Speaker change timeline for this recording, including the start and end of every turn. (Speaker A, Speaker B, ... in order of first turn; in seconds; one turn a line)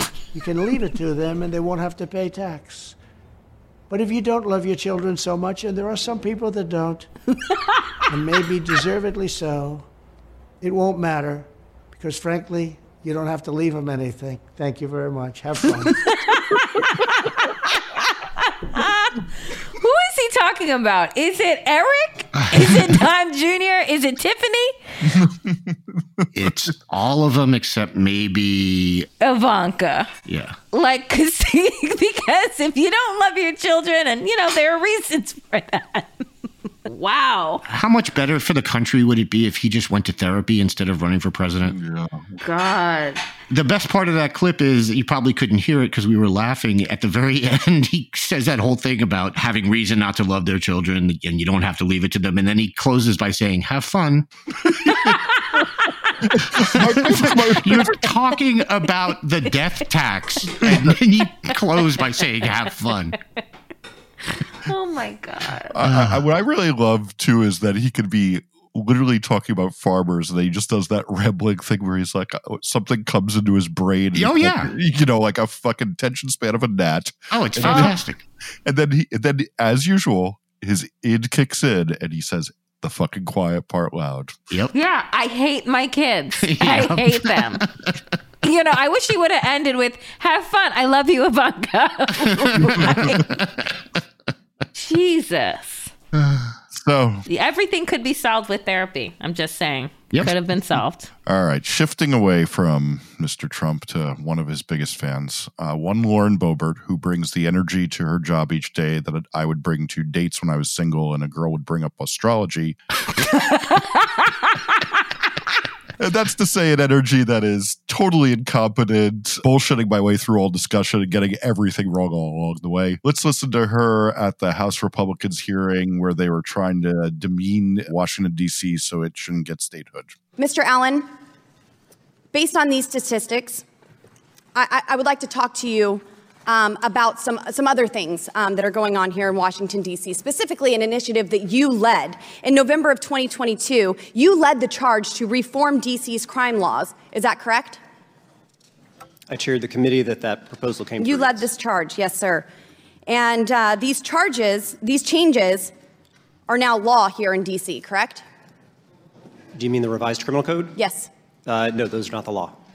Speaker A: 0.3-3.0
Speaker A: 3.9-7.1
Speaker A: 8.1-9.9
Speaker A: 10.6-16.0
Speaker B: 16.0-24.8
Speaker C: 26.3-29.1
Speaker B: 29.2-30.1
Speaker C: 30.3-30.6
Speaker B: 30.7-36.2
Speaker B: 36.9-37.6
Speaker C: 37.7-41.8
Speaker D: 41.7-42.3
Speaker B: 42.4-43.2
Speaker C: 43.5-54.3
Speaker D: 56.5-58.1
Speaker C: 56.5-63.2
Speaker D: 60.6-61.0
Speaker B: 64.7-65.7
Speaker D: 65.7-78.0
Speaker C: 65.8-66.2
Speaker C: 74.2-74.7
Speaker C: 77.3-78.2
Speaker D: 78.7-84.4
Speaker B: 84.7-87.6
Speaker C: 86.4-87.7
Speaker B: 88.4-93.2
Speaker D: 92.6-93.0
Speaker B: 94.7-95.9
Speaker C: 96.3-96.5
Speaker D: 96.7-97.2
Speaker B: 97.3-101.1
Speaker D: 101.3-112.8
Speaker B: 113.5-114.2
Speaker D: 116.0-130.2
Speaker E: 130.4-131.1
Speaker E: 132.3-133.6
Speaker E: 134.6-147.8
Speaker F: 149.3-151.4
Speaker E: 151.0-152.5
Speaker E: 153.1-155.7
Speaker E: 156.5-158.2
Speaker F: 159.6-160.8
Speaker E: 160.8-161.1
Speaker F: 161.5-162.6